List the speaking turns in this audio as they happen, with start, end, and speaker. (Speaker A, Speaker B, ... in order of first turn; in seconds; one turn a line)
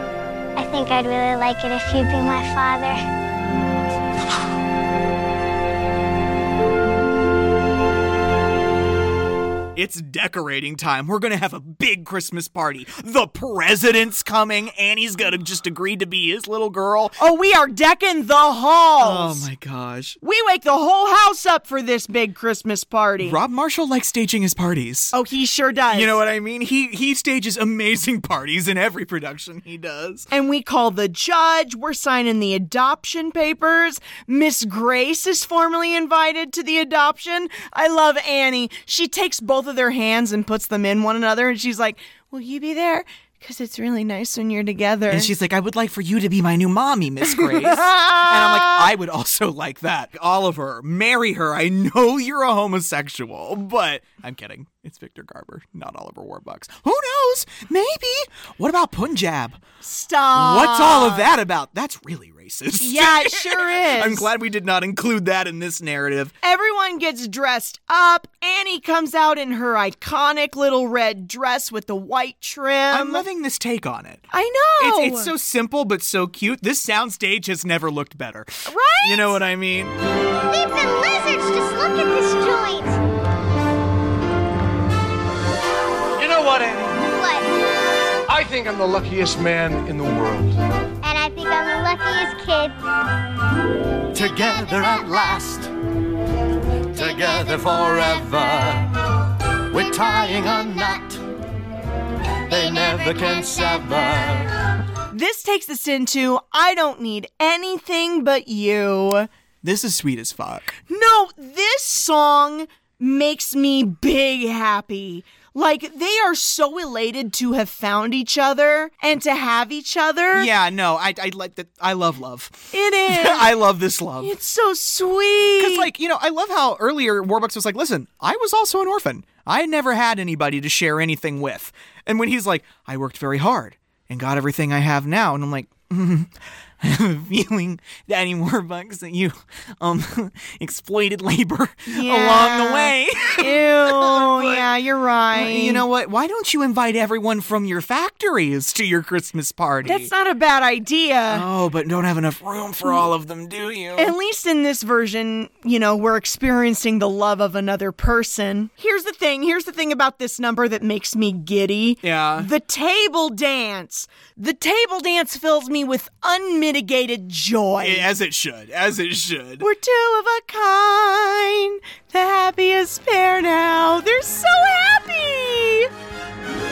Speaker A: 0.6-3.0
Speaker B: 9.8-17.2
Speaker C: 17.2-19.5
Speaker B: 19.0-20.2
Speaker C: 20.2-23.4
Speaker B: 23.2-25.1
Speaker C: 25.1-26.2
Speaker B: 25.9-30.3
Speaker C: 30.3-45.3
Speaker B: 45.1-59.6
Speaker C: 47.4-48.9
Speaker C: 59.8-61.3
Speaker B: 60.3-66.3
Speaker C: 62.8-64.3
Speaker C: 66.4-73.2
Speaker B: 72.9-74.2
Speaker C: 74.3-75.3
Speaker B: 74.8-79.9
Speaker C: 78.7-79.4
Speaker A: 80.5-83.0
Speaker D: 86.2-86.9
Speaker A: 87.0-87.5
Speaker D: 88.3-90.4
Speaker A: 91.0-92.8
Speaker E: 94.1-95.7
Speaker A: 94.1-95.4
Speaker E: 96.9-98.9
Speaker A: 96.9-98.5
Speaker E: 99.7-101.2
Speaker A: 99.9-101.0
Speaker A: 102.5-104.3
Speaker E: 102.5-104.5
Speaker C: 105.1-109.3
Speaker B: 109.6-110.7
Speaker C: 110.9-120.5
Speaker B: 120.3-124.3
Speaker C: 122.7-123.5
Speaker C: 124.2-125.9
Speaker B: 125.6-144.7
Speaker C: 141.9-145.8
Speaker B: 145.3-150.1
Speaker C: 149.8-151.4
Speaker B: 151.3-154.2
Speaker C: 153.9-168.1
Speaker B: 162.0-162.5
Speaker B: 167.8-169.7
Speaker C: 169.6-175.9